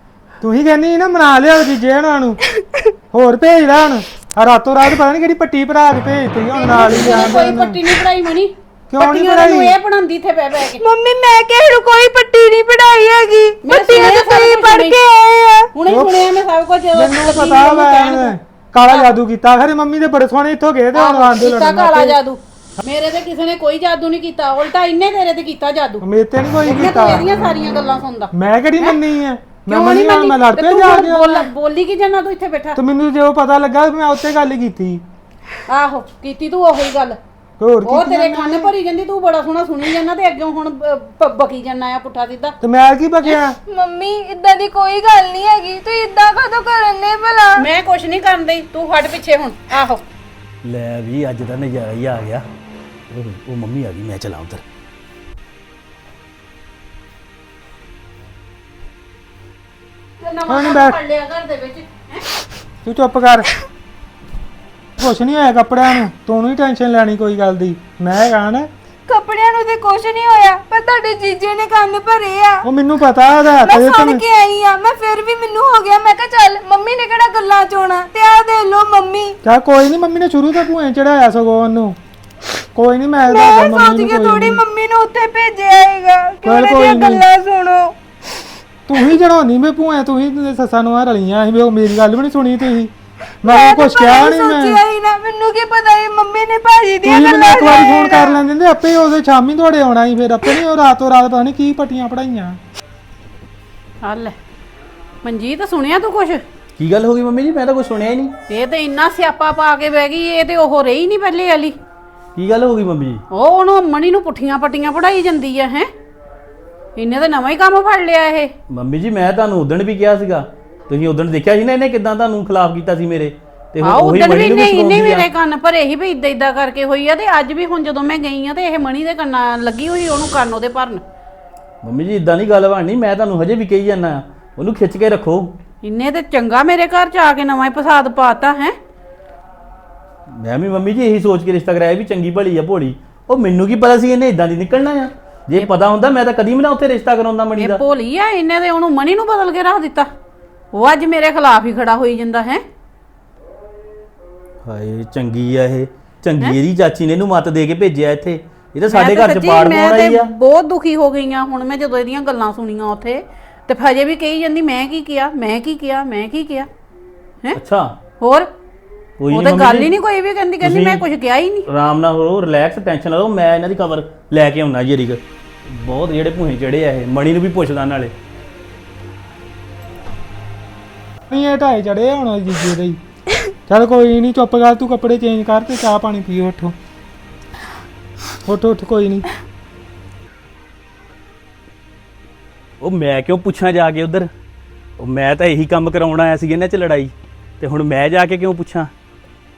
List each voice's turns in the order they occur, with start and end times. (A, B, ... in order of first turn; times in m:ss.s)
0:00.4-0:02.4 A
0:02.5-0:02.9 B
0:03.1-0:07.8 A
0:06.5-0:10.8 C
0:06.9-0:07.2 B
0:08.9-0:09.8 A
0:10.8-0:15.7 B
0:13.6-0:15.0 C
0:15.8-0:19.2 C
0:15.9-0:16.2 A
0:16.9-0:22.2 A
0:20.9-0:26.0 C
0:26.0-0:27.3 A
0:26.6-0:29.0 C
0:28.3-0:31.5 A
0:29.7-0:32.8 C
0:32.8-0:35.0 A
0:35.7-0:37.2 C
0:37.6-0:38.7 A
0:37.8-0:42.6 C
0:42.6-0:43.6 A
0:43.7-0:47.7 B
0:47.6-0:50.0 C
0:50.6-0:52.4 D
0:53.1-0:54.6 D
1:00.2-1:02.3 C
1:00.5-1:01.0 A
1:02.8-1:03.5 A
1:05.0-1:08.7 A
1:09.1-1:12.6 B
1:12.6-1:14.2 A
1:13.6-1:19.4 B
1:19.4-1:22.0 A
1:22.8-1:24.6 A
1:23.2-1:28.0 B
1:26.4-1:27.2 A
1:28.9-1:32.9 A
1:33.4-1:38.4 B
1:33.4-1:34.8 A
1:37.0-1:42.6 A
1:44.0-1:44.4 C
1:45.2-1:46.4 C
1:46.8-1:48.3 D
1:48.5-1:51.8 C
1:52.4-1:53.2 D
1:53.3-1:55.9 C
1:57.0-1:58.5 C
1:58.7-2:05.3 D
2:03.8-2:11.0 C
2:11.8-2:15.5 D
2:15.8-2:18.8 C
2:20.4-2:27.8 D
2:27.6-2:30.1 C
2:30.7-2:32.6 C
2:34.6-2:40.3 D
2:38.9-2:46.7 C
2:47.5-2:47.9 D
2:48.2-2:48.5 C
2:49.2-2:49.9 D
2:49.3-2:51.7 C
2:50.6-2:51.0 D
2:51.7-2:58.1 D
3:01.3-3:03.0 A
3:03.7-3:06.8 A
3:08.4-3:09.3 A
3:12.8-3:14.3 D
3:15.0-3:18.9 D